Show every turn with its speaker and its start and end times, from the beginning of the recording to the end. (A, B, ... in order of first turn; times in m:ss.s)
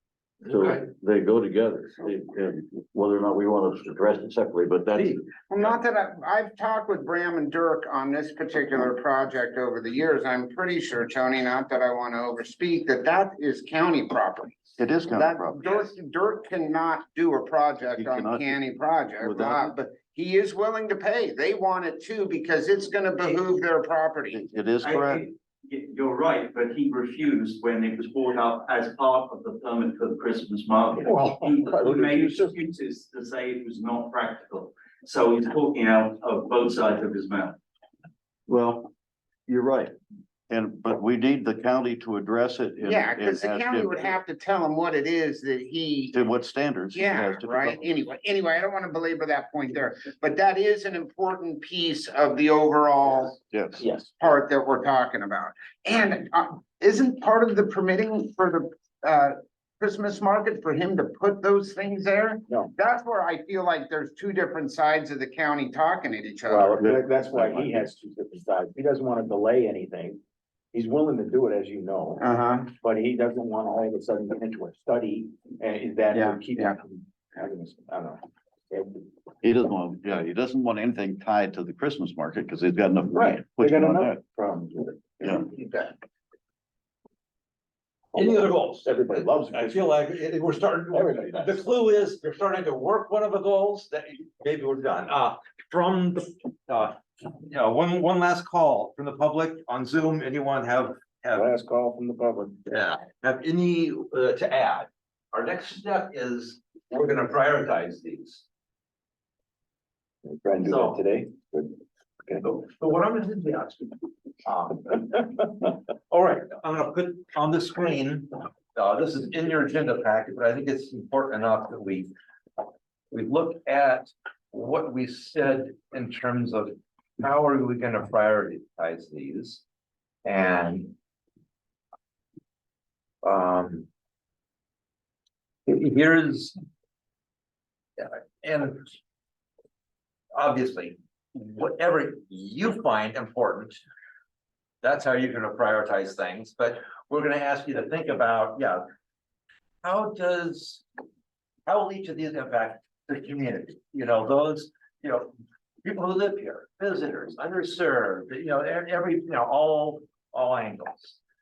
0:00.4-0:00.8 A
0:00.5-0:05.2 B
0:04.9-0:05.2 A
0:05.5-0:24.4 C
0:14.8-0:15.6 B
0:18.0-0:18.6 B
0:19.2-0:19.7 B
0:24.3-0:25.2 B
0:24.8-0:37.6 D
0:31.0-0:32.5 E
0:38.5-0:38.9 B
0:39.5-0:39.9 B
0:40.5-0:44.2 B
0:42.8-0:46.2 C
0:46.1-0:47.9 B
0:46.9-0:53.4 C
0:53.5-0:53.8 B
0:53.8-0:54.2 E
0:54.2-1:06.8 C
1:02.5-1:02.7 E
1:06.4-1:10.2 E
1:06.8-1:07.7 B
1:10.7-1:12.2 E
1:12.2-1:12.7 C
1:12.8-1:19.1 E
1:16.1-1:16.8 C
1:19.4-1:24.2 B
1:23.1-1:25.8 E
1:28.1-1:41.5 A
1:28.1-1:29.9 E
1:30.9-1:31.6 E
1:41.3-1:42.6 E
1:42.6-1:48.4 A
1:50.2-1:52.4 E
1:50.6-1:51.0 A
1:52.4-1:55.4 A
1:56.1-2:02.1 A
2:03.1-2:09.6 A
2:10.2-2:10.9 A
2:13.2-2:13.9 A
2:15.7-2:16.6 A
2:18.0-2:18.9 A
2:20.3-2:23.8 A
2:24.8-2:28.8 A
2:29.8-2:30.8 A
2:31.6-2:35.3 A
2:35.8-2:41.2 A